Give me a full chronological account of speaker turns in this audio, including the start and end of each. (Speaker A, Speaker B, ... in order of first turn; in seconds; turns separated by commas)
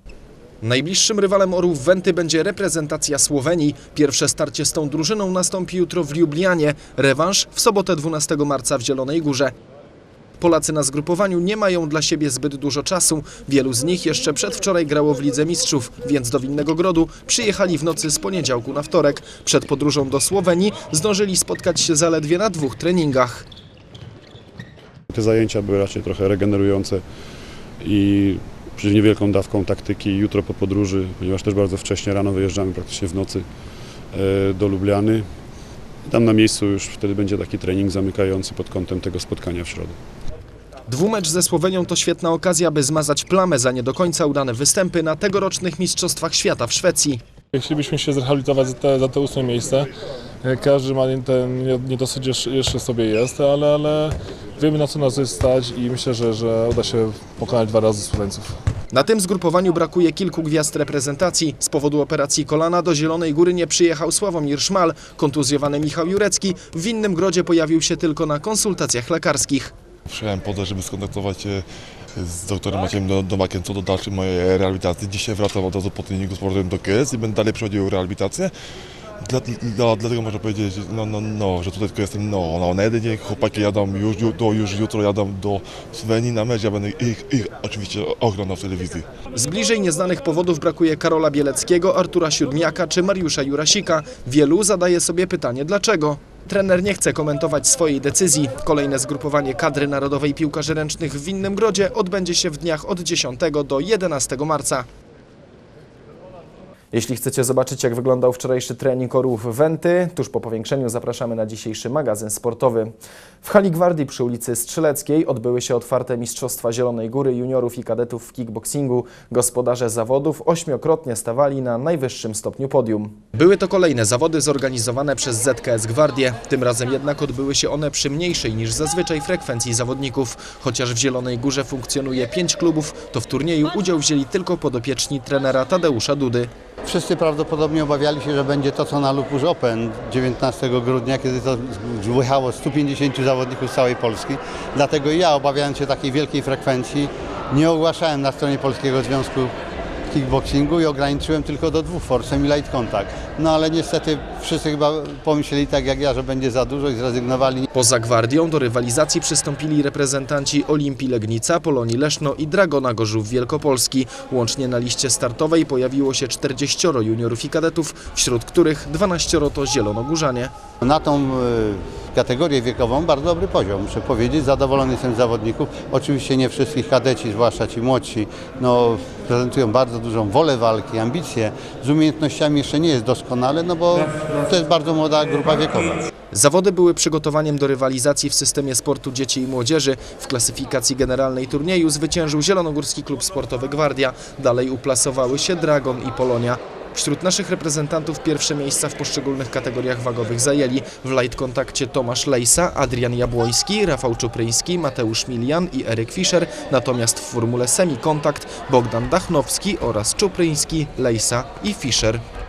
Speaker A: 0.6-9.5, Speaker A: 10.4-23.4, Speaker B: 25.1-27.0, Speaker B: 27.6-40.0, Speaker A: 40.9-47.2, Speaker C: 47.5-49.9, Speaker C: 50.4-58.5, Speaker A: 58.9-69.7, Speaker D: 70.1-71.6, Speaker D: 72.2-78.5, Speaker D: 79.2-89.1, Speaker A: 89.3-104.8, Speaker A: 106.9-136.5, Speaker E: 136.8-149.5, Speaker E: 150.1-157.7, Speaker A: 157.7-170.5, Speaker E: 170.8-186.0, Speaker A: 186.3-212.2